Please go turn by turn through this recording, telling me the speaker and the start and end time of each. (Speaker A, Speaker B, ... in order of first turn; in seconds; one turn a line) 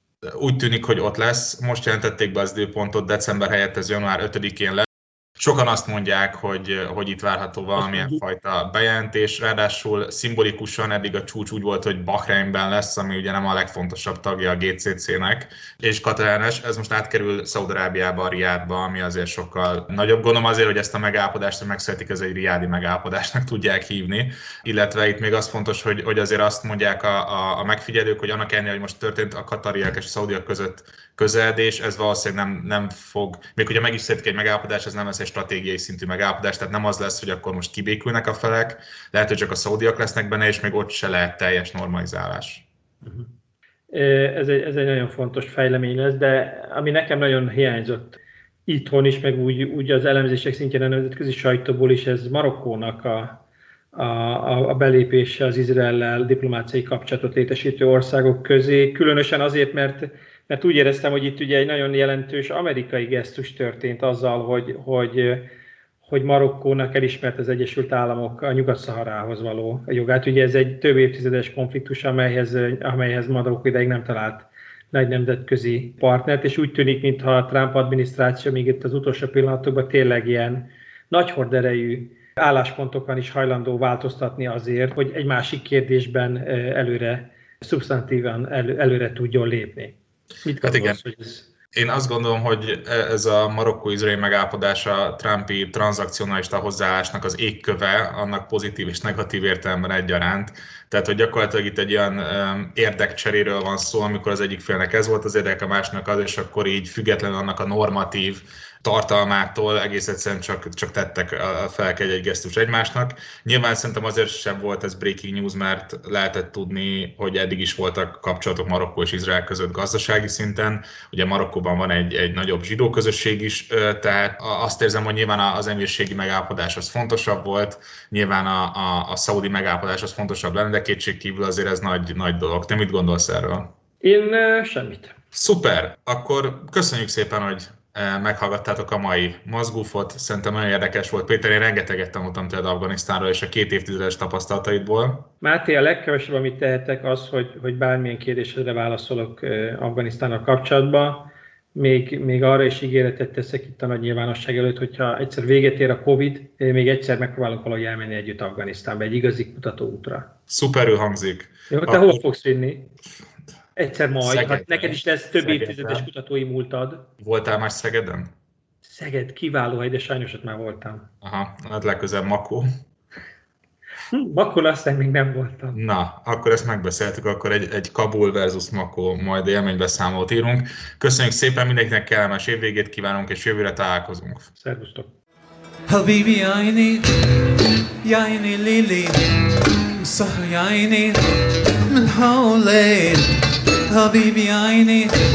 Speaker A: 0.2-42.6
Speaker B: 7.8-8.2
Speaker B: 43.0-43.3
Speaker B: 43.9-53.4
Speaker B: 53.9-65.5
Speaker B: 66.0-91.5
Speaker A: 90.6-91.0
Speaker A: 91.7-133.7
Speaker B: 134.0-135.1
Speaker A: 135.3-145.3
Speaker B: 145.4-160.3
Speaker A: 160.5-162.2
Speaker B: 161.7-162.9
Speaker B: 163.8-167.1
Speaker A: 164.2-166.1
Speaker A: 167.2-168.3
Speaker B: 168.8-171.1
Speaker A: 171.2-172.7
Speaker B: 174.1-175.8
Speaker A: 175.7-184.5
Speaker B: 184.6-185.1
Speaker C: 185.9-187.2
Speaker C: 188.0-191.2
Speaker C: 191.9-195.2